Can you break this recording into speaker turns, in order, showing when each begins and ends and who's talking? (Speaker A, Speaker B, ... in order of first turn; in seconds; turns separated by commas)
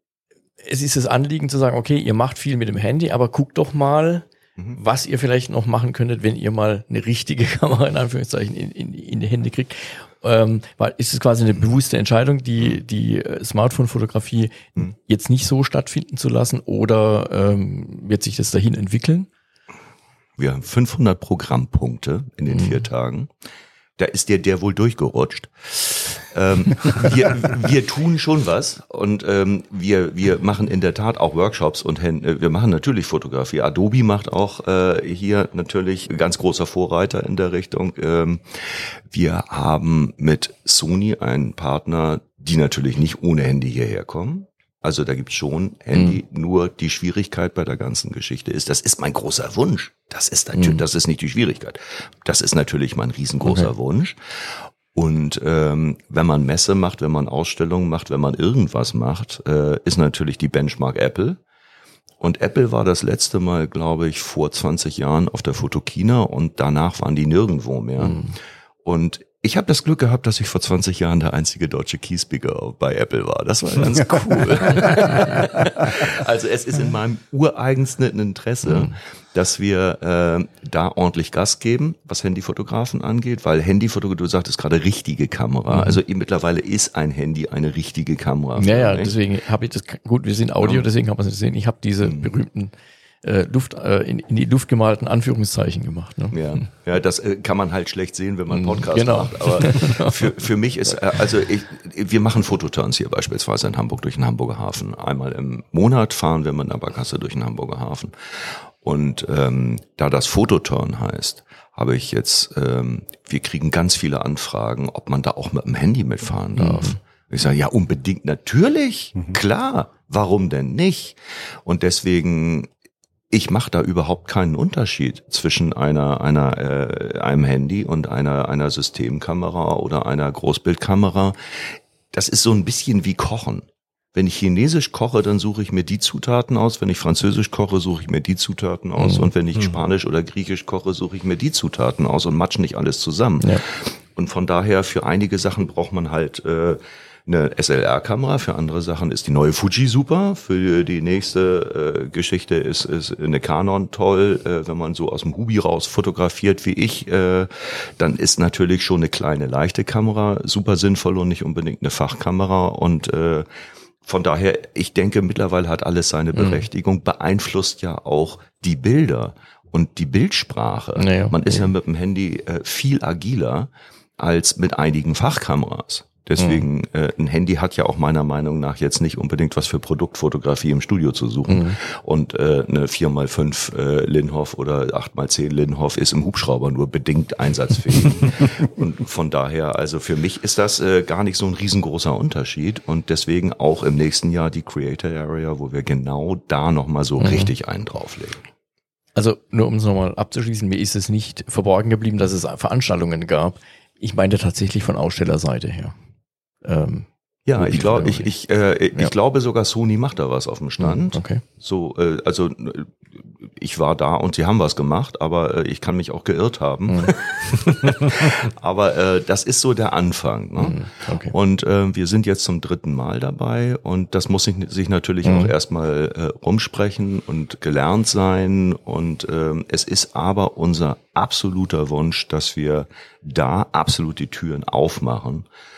Speaker A: 0.6-19.3, Speaker B: 20.4-23.3, Speaker A: 22.6-22.8, Speaker B: 24.0-54.2, Speaker A: 50.6-50.8, Speaker A: 53.4-53.7, Speaker B: 54.9-61.4, Speaker B: 62.2-68.3, Speaker B: 68.8-89.1, Speaker A: 85.7-86.0, Speaker A: 88.5-96.6, Speaker B: 90.6-90.9, Speaker B: 92.0-92.3, Speaker B: 96.3-108.1, Speaker A: 98.5-100.1, Speaker B: 108.8-122.7, Speaker A: 116.6-117.0, Speaker B: 123.3-131.4, Speaker B: 132.1-163.5, Speaker A: 139.0-139.3, Speaker B: 164.1-198.4, Speaker A: 166.4-166.7, Speaker A: 171.0-171.7, Speaker A: 176.4-176.7, Speaker A: 181.5-181.8, Speaker A: 197.2-197.5, Speaker A: 199.2-205.9, Speaker A: 206.6-208.3, Speaker B: 207.5-235.5, Speaker A: 210.8-211.4, Speaker A: 220.6-221.3, Speaker A: 225.2-225.5